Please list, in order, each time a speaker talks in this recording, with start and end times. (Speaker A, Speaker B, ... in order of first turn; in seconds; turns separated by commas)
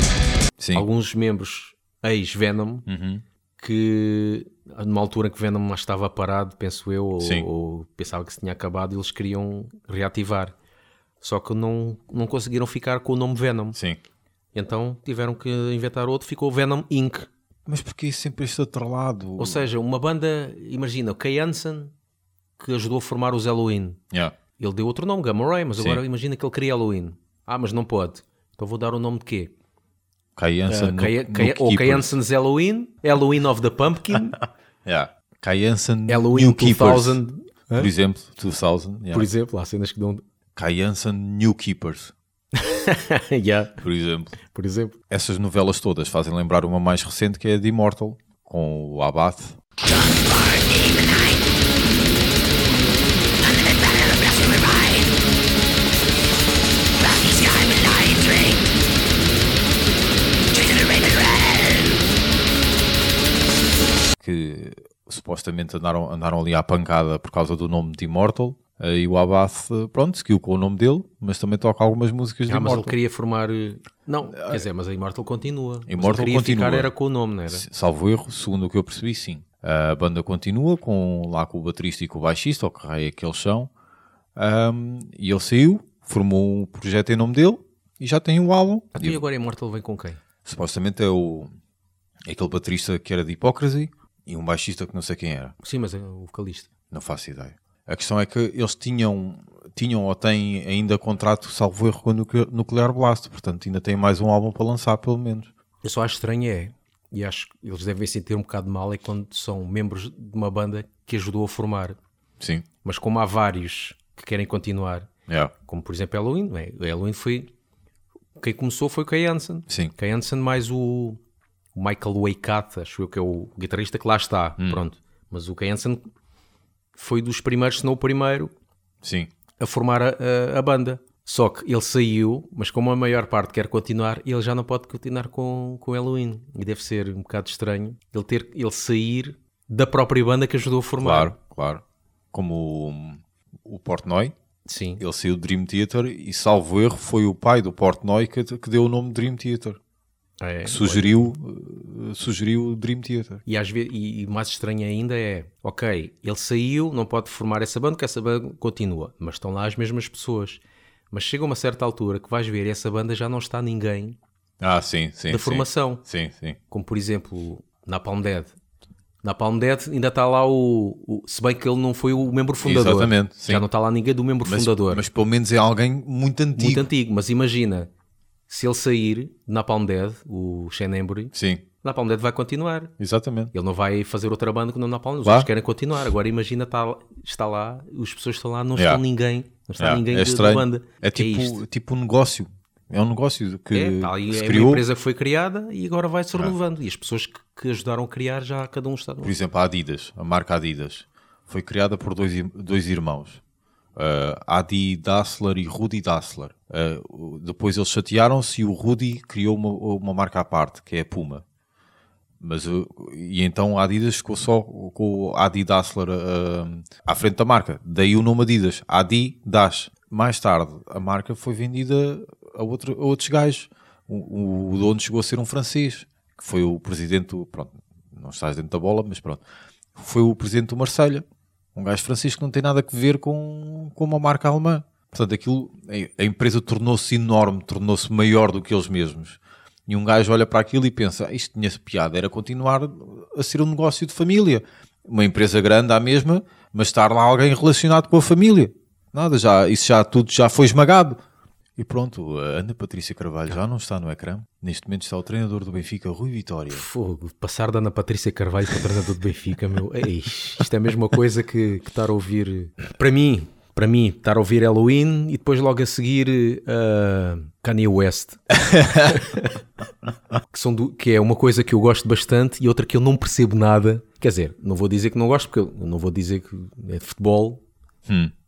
Speaker A: 0.6-0.8, Speaker B: 0.7-2.9, Speaker A: 2.9-3.2, Speaker B: 3.6-10.6, Speaker A: 7.2-7.5, Speaker B: 11.2-13.8, Speaker A: 13.7-14.0, Speaker B: 14.5-17.3, Speaker A: 17.7-19.7, Speaker B: 19.4-21.9, Speaker B: 22.6-24.0, Speaker B: 24.6-29.5, Speaker A: 30.4-32.1, Speaker B: 30.7-34.4, Speaker A: 34.9-37.2, Speaker B: 36.1-37.9, Speaker A: 37.7-39.3, Speaker B: 39.1-40.2, Speaker A: 40.6-42.1, Speaker B: 42.5-43.8, Speaker A: 43.8-44.4, Speaker B: 44.5-45.0, Speaker A: 45.1-49.6, Speaker B: 49.9-51.3, Speaker B: 53.5-55.1, Speaker B: 57.1-58.6, Speaker B: 60.8-61.1, Speaker A: 64.2-73.0, Speaker B: 72.5-77.7, Speaker A: 74.3-74.6, Speaker A: 75.9-76.9, Speaker A: 77.5-83.7, Speaker A: 84.4-89.2, Speaker B: 88.9-90.2, Speaker A: 90.4-91.5, Speaker A: 92.3-95.5, Speaker B: 95.6-96.7, Speaker A: 96.9-105.5, Speaker B: 105.8-112.0, Speaker A: 112.4-112.7, Speaker B: 112.8-115.1, Speaker A: 115.3-115.5, Speaker B: 115.7-117.5, Speaker B: 118.4-121.2, Speaker B: 121.8-126.0, Speaker B: 127.0-128.5, Speaker A: 129.0-129.3, Speaker B: 129.6-141.3, Speaker A: 141.0-141.8, Speaker A: 142.3-144.3, Speaker B: 144.7-145.0, Speaker A: 145.0-149.8, Speaker B: 150.4-151.3, Speaker A: 150.7-153.4, Speaker B: 153.5-164.2, Speaker A: 164.6-166.6, Speaker B: 165.3-166.0, Speaker B: 166.7-168.6, Speaker B: 169.2-175.0, Speaker A: 172.6-173.7, Speaker A: 174.4-176.9, Speaker B: 176.6-177.9, Speaker B: 178.5-182.9, Speaker A: 181.3-181.6, Speaker A: 183.0-183.5, Speaker B: 183.5-191.6, Speaker A: 188.8-189.0, Speaker A: 189.8-194.8, Speaker B: 193.7-199.3, Speaker A: 199.2-203.4, Speaker A: 204.0-211.4, Speaker A: 212.4-229.4, Speaker A: 229.9-231.2, Speaker A: 231.8-251.2, Speaker A: 251.8-256.8, Speaker B: 256.7-269.6, Speaker A: 268.7-269.0, Speaker B: 270.5-277.6, Speaker A: 278.1-278.3